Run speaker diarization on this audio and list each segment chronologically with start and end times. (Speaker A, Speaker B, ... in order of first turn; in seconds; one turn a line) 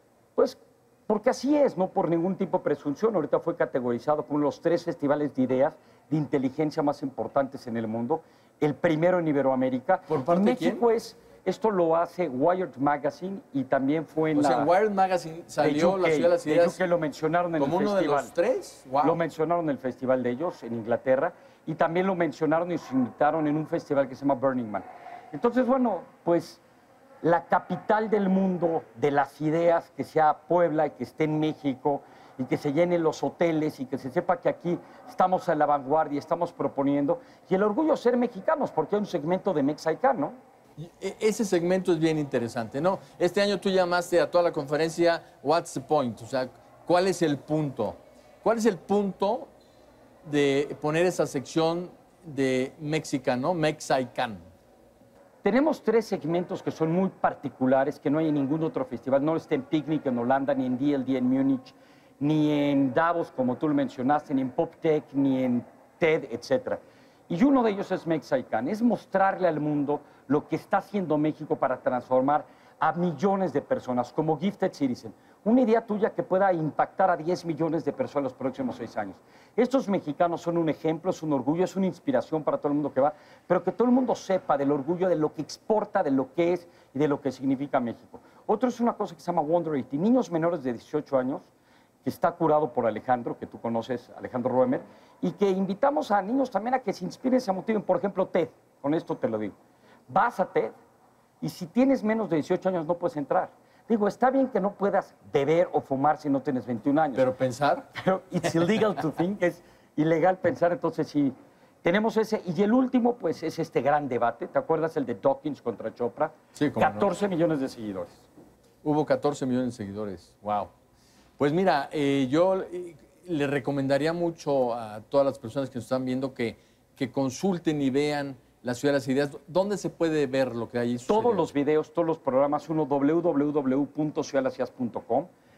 Speaker A: 0.3-14.7
Speaker B: 10.1-10.8
Speaker B: 14.3-16.8
Speaker A: 15.6-18.3
Speaker B: 17.6-19.2
Speaker A: 19.0-26.6
Speaker A: 27.2-40.4
Speaker B: 40.8-49.5
Speaker B: 50.2-54.4
Speaker A: 55.4-91.5
Speaker A: 92.0-99.5
Speaker A: 100.1-100.7
Speaker A: 101.4-107.3
Speaker B: 107.1-107.9
Speaker A: 107.9-118.2
Speaker B: 116.5-117.1
Speaker B: 118.8-120.7
Speaker B: 121.4-131.5
Speaker A: 131.1-135.3